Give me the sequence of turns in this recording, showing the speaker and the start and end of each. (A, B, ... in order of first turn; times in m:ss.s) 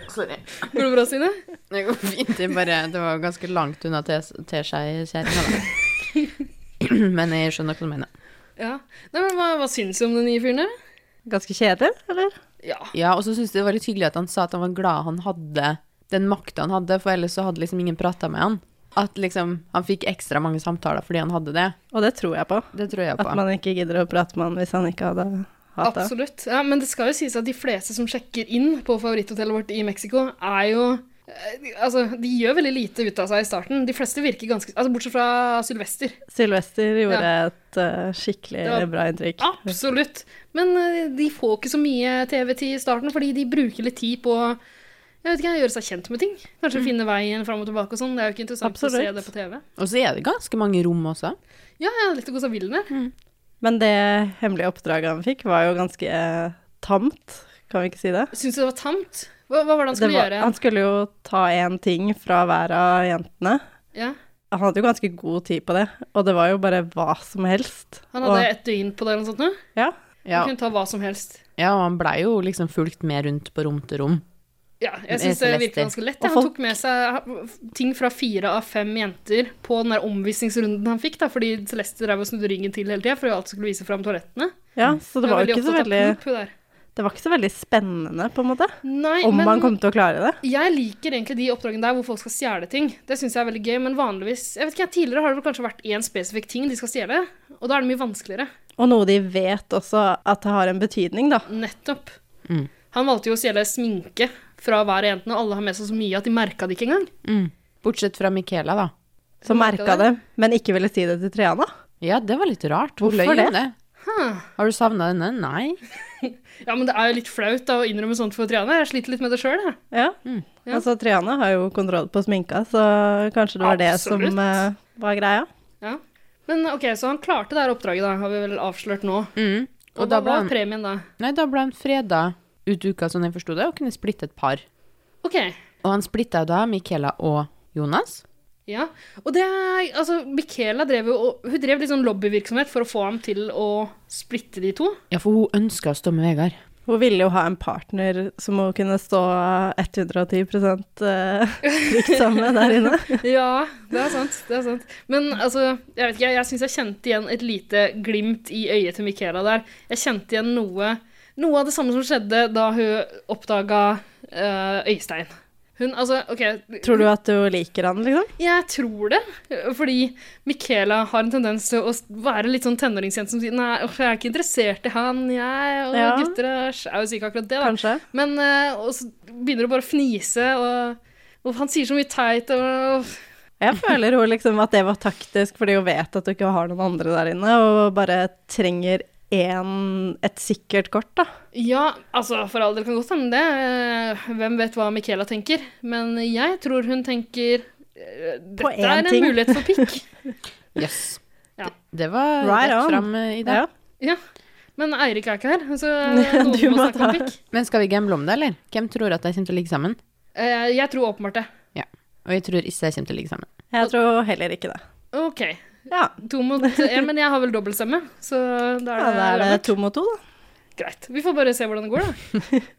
0:00.1-0:00.7 A
0:00.7-0:01.4 B
0:01.7-0:05.7 A
0:06.8-0:08.1 A
0:08.6-0:10.7 B
0:11.3-0:12.4 C
0:12.6-0:12.9 B
0:12.9-0:21.8 A
0:21.9-0:22.7 C
0:22.7-0:23.4 A
0:23.2-0:26.1 C
0:25.8-0:36.2 B
0:36.3-0:39.7 C
0:39.4-0:44.6 B
0:45.2-0:49.6 B
0:48.6-0:49.3 C
0:49.8-0:51.4 A
0:51.8-0:52.9 B
0:53.6-0:58.3 C
0:58.3-1:00.6 B
0:59.9-1:03.6 C
1:04.5-1:08.5 C
1:08.2-1:09.6 B
1:10.2-1:10.5 A
1:10.3-1:11.4 B
1:11.6-1:14.2 A
1:14.8-1:24.5 B
1:15.1-1:15.9 A
1:16.2-1:16.5 C
1:24.8-1:26.2 C
1:25.2-1:26.5 B
1:27.0-1:30.4 C
1:28.8-1:29.7 B
1:30.4-1:38.5 B
1:38.8-1:41.5 C
1:41.5-1:42.2 B
1:42.9-1:47.1 B
1:47.2-1:48.9 A
1:49.4-1:50.1 B
1:49.5-1:51.7 C
1:52.0-1:53.7 A
1:53.0-1:53.6 C
1:54.0-1:54.5 B
1:54.6-1:55.8 A
1:56.2-1:59.8 B
1:59.9-2:00.2 C
2:00.7-2:05.5 C
2:03.6-2:04.5 B
2:05.8-2:09.3 B
2:09.4-2:10.5 A
2:10.0-2:11.0 B
2:11.2-2:14.6 A
2:15.2-2:15.6 B
2:15.8-2:18.2 A
2:18.7-2:25.0 B
2:25.1-2:26.6 A
2:26.9-2:33.2 C
2:31.7-2:47.1 B
2:46.8-2:48.3 C
2:48.4-3:03.2 B
2:55.9-2:56.4 C
2:57.6-2:58.0 C
3:03.6-3:11.3 C
3:11.5-3:20.0 B
3:18.6-3:19.9 C
3:20.8-3:21.2 A
3:21.8-3:23.6 A
3:22.4-3:23.7 C
3:24.8-3:27.4 B
3:26.0-3:27.3 C
3:27.5-3:30.0 A
3:30.4-3:31.5 B
3:31.8-3:33.5 A
3:33.7-3:34.8 C
3:35.1-3:35.6 B
3:35.9-3:36.9 C
3:36.2-3:39.7 B
3:39.0-3:40.2 C
3:40.8-3:42.2 B